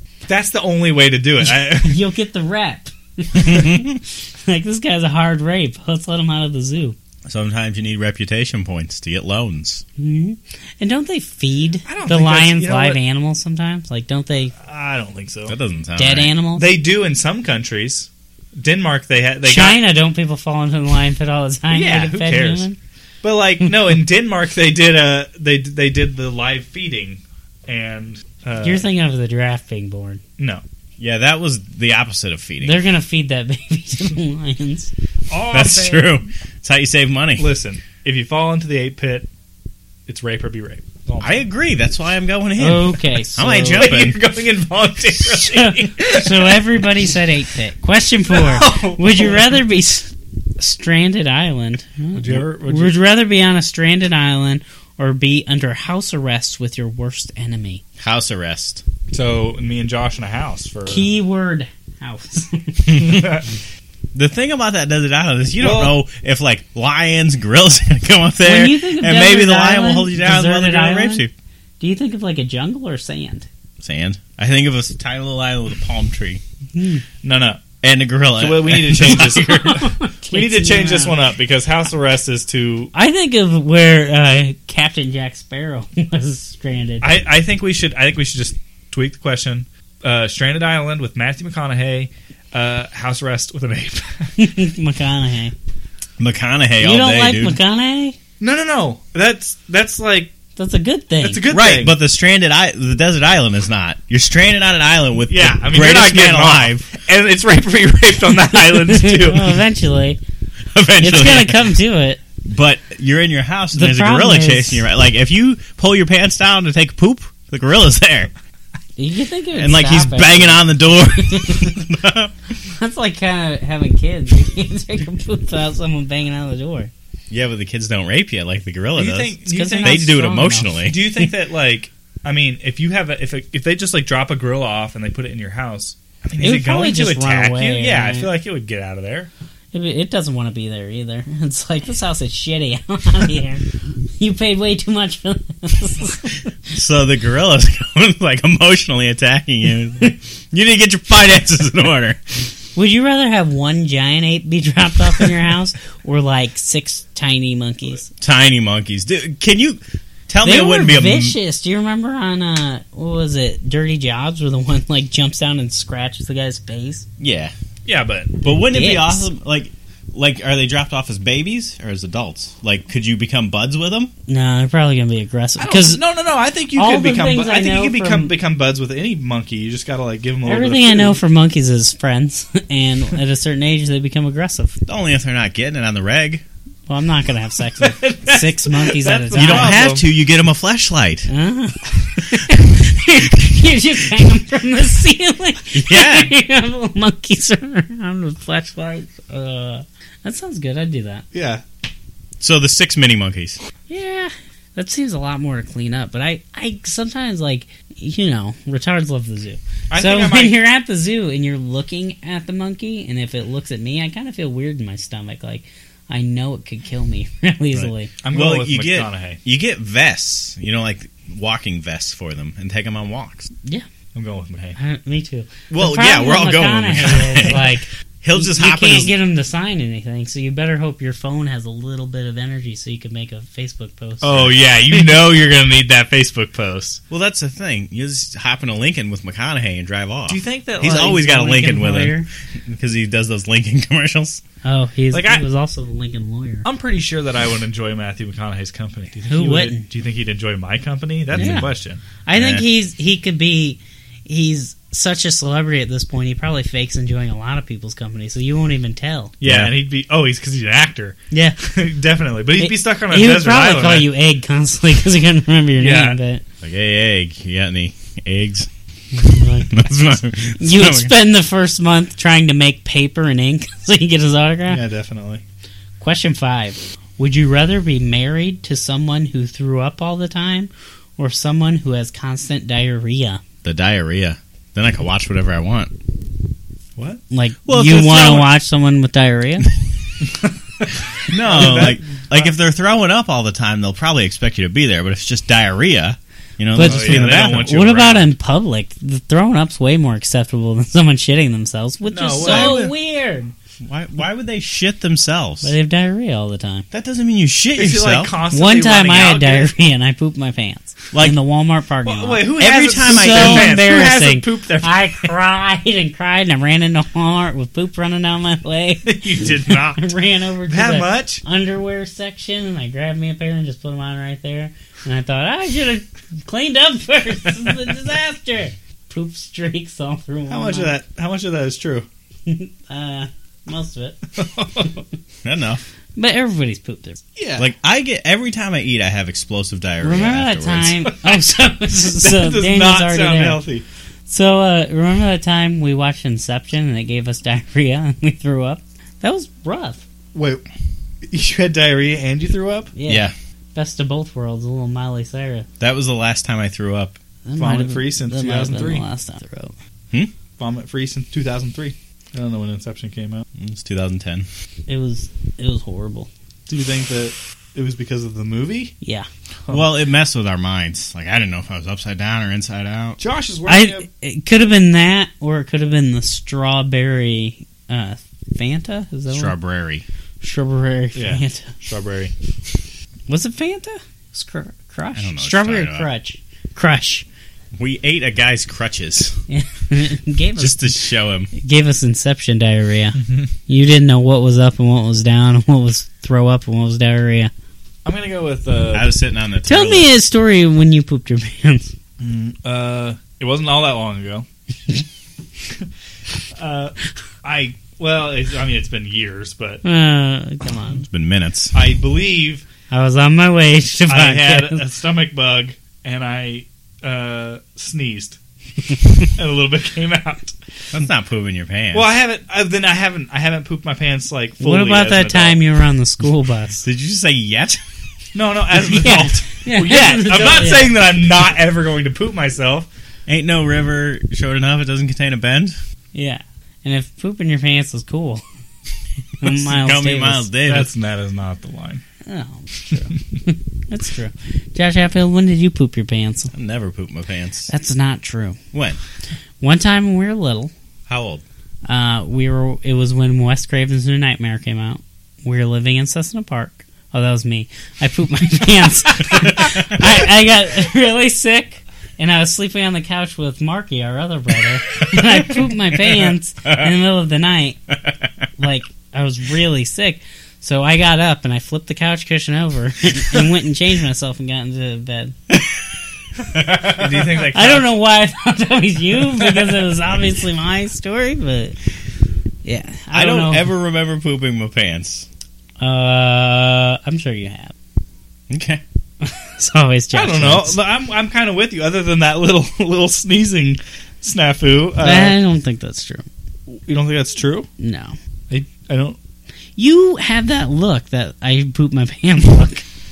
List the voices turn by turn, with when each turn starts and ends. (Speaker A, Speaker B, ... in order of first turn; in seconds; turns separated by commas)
Speaker A: 0.3-2.0, Speaker B: 1.4-7.0, Speaker C: 3.3-4.0, Speaker C: 7.2-9.8, Speaker B: 10.0-14.5, Speaker A: 11.8-13.0, Speaker A: 14.6-15.6, Speaker C: 15.5-16.3, Speaker B: 16.0-16.7, Speaker A: 16.6-19.8, Speaker B: 19.4-22.8, Speaker A: 21.7-22.7, Speaker A: 23.2-28.9, Speaker B: 28.6-30.2, Speaker A: 30.4-30.6, Speaker C: 31.0-32.8, Speaker B: 32.6-34.9, Speaker A: 35.3-36.2, Speaker C: 35.5-37.5, Speaker A: 37.4-39.3, Speaker A: 40.1-41.4, Speaker C: 41.2-44.2, Speaker B: 42.6-43.9, Speaker A: 43.7-46.8, Speaker B: 45.2-57.8, Speaker A: 48.3-49.6, Speaker A: 52.1-53.0, Speaker C: 58.0-58.8, Speaker A: 59.1-61.1, Speaker B: 60.9-63.1, Speaker C: 62.9-63.4, Speaker A: 63.0-63.5, Speaker C: 64.1-71.3, Speaker A: 65.6-66.0, Speaker B: 68.4-71.2, Speaker B: 71.8-73.5, Speaker C: 73.8-76.4, Speaker B: 76.7-77.0, Speaker A: 77.2-77.6, Speaker C: 77.8-79.5, Speaker A: 78.3-82.9, Speaker B: 79.2-81.2, Speaker B: 82.9-87.1, Speaker A: 87.0-94.3, Speaker B: 94.4-95.5, Speaker C: 96.2-97.6, Speaker B: 96.8-98.2, Speaker A: 98.4-100.3, Speaker B: 100.6-101.4, Speaker A: 101.2-102.0, Speaker C: 101.5-106.9, Speaker A: 105.3-109.6, Speaker B: 108.7-110.2, Speaker C: 110.7-111.7, Speaker B: 111.0-112.2, Speaker C: 112.4-118.3, Speaker B: 113.7-114.8, Speaker B: 119.0-121.7, Speaker C: 119.5-122.3, Speaker B: 122.7-126.9, Speaker C: 127.3-131.0, Speaker A: 128.9-130.2, Speaker B: 129.5-130.9, Speaker A: 130.8-139.3, Speaker B: 136.4-138.3, Speaker B: 139.7-143.6, Speaker B: 144.2-146.5, Speaker C: 146.7-152.2, Speaker B: 152.7-158.1, Speaker C: 158.2-161.4, Speaker B: 160.4-167.1, Speaker C: 167.2-167.5, Speaker A: 167.8-168.4, Speaker C: 168.4-174.1, Speaker B: 168.7-169.3, Speaker B: 174.3-176.0, Speaker A: 175.6-181.2, Speaker B: 176.8-178.3, Speaker B: 180.4-184.8, Speaker C: 184.9-186.4, Speaker B: 186.9-189.8, Speaker A: 187.8-190.1, Speaker C: 189.3-191.3, Speaker B: 191.3-201.2, Speaker C: 195.7-196.3, Speaker A: 201.3-201.6, Speaker C: 202.4-203.6, Speaker B: 203.9-218.1, Speaker A: 209.9-210.6, Speaker C: 217.7-223.5, Speaker A: 218.2-219.4, Speaker A: 224.1-224.8, Speaker B: 224.8-235.2, Speaker C: 225.7-229.1, Speaker A: 234.2-237.0, Speaker C: 237.1-244.4, Speaker A: 240.3-241.2, Speaker B: 240.8-242.3, Speaker B: 244.6-246.7, Speaker A: 245.1-245.4, Speaker A: 246.6-252.0, Speaker B: 249.3-249.8, Speaker C: 251.3-251.7, Speaker B: 251.3-251.7, Speaker B: 252.2-259.3, Speaker C: 252.3-252.6, Speaker A: 259.4-264.1, Speaker C: 259.4-259.7, Speaker B: 261.3-261.6, Speaker B: 262.6-266.4, Speaker A: 265.8-266.2, Speaker C: 266.6-268.7, Speaker B: 269.1-269.9, Speaker C: 269.7-271.1, Speaker B: 270.6-274.8, Speaker A: 274.7-275.4, Speaker B: 276.0-283.4, Speaker C: 283.6-285.9, Speaker B: 287.3-289.7, Speaker C: 287.6-288.5, Speaker A: 290.3-292.5, Speaker C: 291.3-298.0, Speaker B: 296.7-303.5, Speaker A: 296.8-298.2, Speaker A: 302.1-302.9, Speaker C: 302.4-302.9, Speaker C: 303.8-305.7, Speaker B: 305.6-306.9, Speaker C: 306.9-308.3, Speaker A: 307.8-309.7, Speaker B: 308.5-330.9, Speaker C: 311.1-311.4, Speaker A: 312.0-315.3, Speaker C: 312.6-313.8, Speaker A: 319.0-320.1, Speaker A: 320.7-321.4, Speaker A: 330.5-332.1, Speaker B: 332.5-334.2, Speaker A: 334.4-334.9, Speaker C: 335.4-335.8, Speaker B: 336.2-337.2, Speaker A: 337.4-337.7, Speaker C: 337.6-341.0, Speaker B: 340.0-343.6, Speaker A: 342.1-343.8, Speaker B: 344.3-350.0, Speaker A: 350.3-350.6, Speaker A: 351.3-352.9, Speaker B: 352.9-355.7, Speaker C: 353.1-353.3, Speaker C: 355.8-357.2, Speaker B: 357.4-359.7, Speaker A: 357.6-359.0, Speaker A: 360.6-363.4, Speaker C: 363.6-364.5, Speaker B: 364.9-366.3, Speaker A: 366.7-368.9, Speaker B: 369.0-369.3, Speaker C: 369.7-373.2, Speaker A: 373.2-374.1, Speaker B: 373.7-379.5, Speaker C: 379.3-380.0, Speaker B: 380.4-381.7, Speaker A: 381.1-382.3, Speaker B: 383.3-387.2, Speaker C: 385.1-386.1, Speaker C: 387.8-389.4, Speaker B: 389.5-391.0, Speaker C: 390.6-391.5, Speaker B: 391.6-397.5, Speaker A: 393.2-393.5, Speaker A: 398.0-399.1, Speaker C: 398.9-400.1, Speaker B: 399.6-401.9, Speaker A: 402.2-404.4, Speaker A: 406.6-409.8, Speaker B: 409.8-411.0, Speaker C: 411.0-411.7, Speaker A: 411.7-412.6, Speaker B: 412.9-414.8, Speaker A: 414.1-418.4, Speaker A: 419.2-420.5, Speaker C: 420.9-422.1, Speaker A: 421.9-425.6, Speaker B: 424.6-426.8, Speaker C: 426.8-427.8, Speaker A: 428.3-432.9, Speaker B: 428.9-430.9, Speaker C: 433.3-435.8, Speaker B: 436.1-438.4, Speaker B: 439.4-440.5, Speaker C: 439.4-440.9, Speaker A: 440.6-442.0, Speaker B: 442.2-446.5, Speaker C: 446.5-447.7, Speaker B: 447.7-448.6, Speaker C: 448.7-449.0, Speaker B: 449.6-450.7, Speaker C: 451.1-451.4, Speaker B: 451.9-467.8, Speaker C: 459.4-460.1, Speaker C: 465.1-466.9, Speaker B: 468.6-475.3, Speaker C: 475.5-477.2, Speaker A: 476.8-477.8, Speaker B: 477.5-481.8, Speaker B: 482.6-483.7, Speaker C: 483.1-485.3, Speaker B: 485.8-487.7, Speaker C: 488.5-488.8, Speaker B: 489.2-490.8, Speaker A: 490.1-495.4, Speaker B: 495.0-496.2, Speaker A: 496.7-497.7, Speaker B: 497.8-498.2, Speaker A: 498.5-499.2, Speaker B: 499.8-502.8